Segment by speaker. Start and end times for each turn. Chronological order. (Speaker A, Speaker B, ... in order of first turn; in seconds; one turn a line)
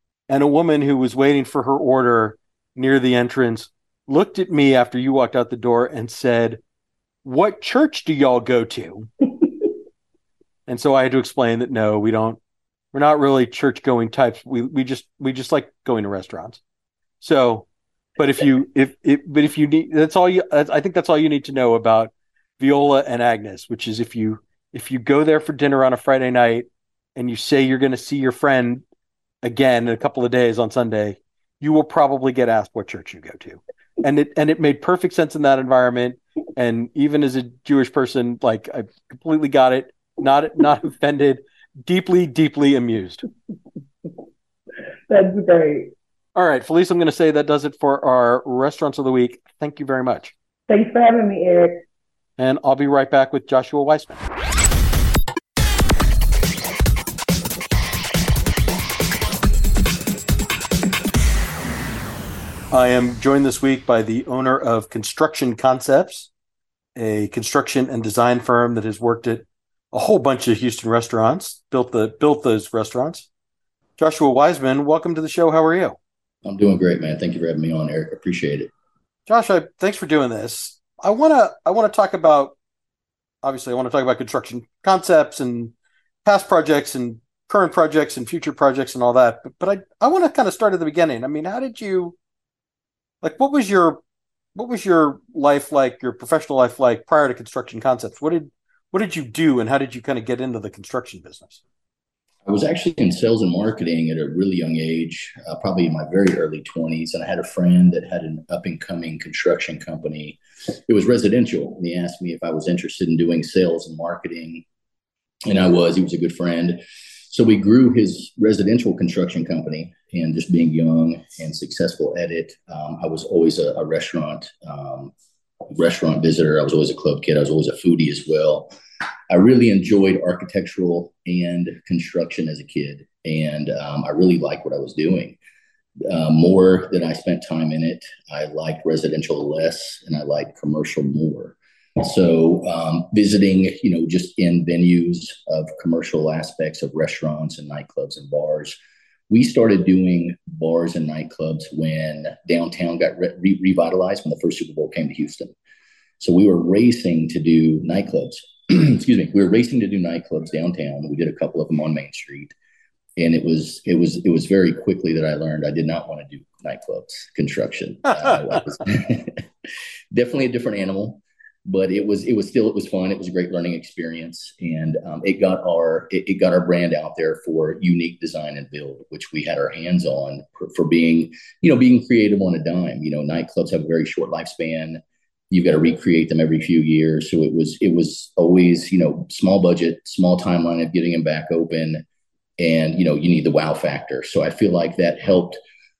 Speaker A: 0.3-6.6
Speaker A: 7.2-9.1
Speaker A: 10.7-12.4
Speaker A: 12.9-16.6
Speaker A: 17.2-17.6
Speaker A: 18.2-28.8
Speaker A: 29.4-43.2
Speaker B: 45.1-45.9
Speaker A: 46.3-50.3
Speaker B: 50.7-51.8
Speaker A: 52.4-54.2
Speaker A: 62.7-66.3
Speaker A: 66.9-73.3
Speaker A: 74.0-76.0
Speaker C: 76.4-78.7
Speaker A: 79.3-82.5
Speaker A: 83.4-85.7
Speaker A: 86.2-92.1
Speaker A: 93.2-94.0
Speaker A: 94.5-101.6
Speaker C: 102.4-114.6
Speaker C: 115.5-125.1
Speaker C: 125.7-128.7
Speaker C: 129.3-135.4
Speaker C: 136.1-148.8
Speaker C: 149.3-155.5
Speaker C: 156.2-162.5
Speaker C: 163.2-169.4
Speaker C: 170.1-192.0
Speaker C: 192.6-195.6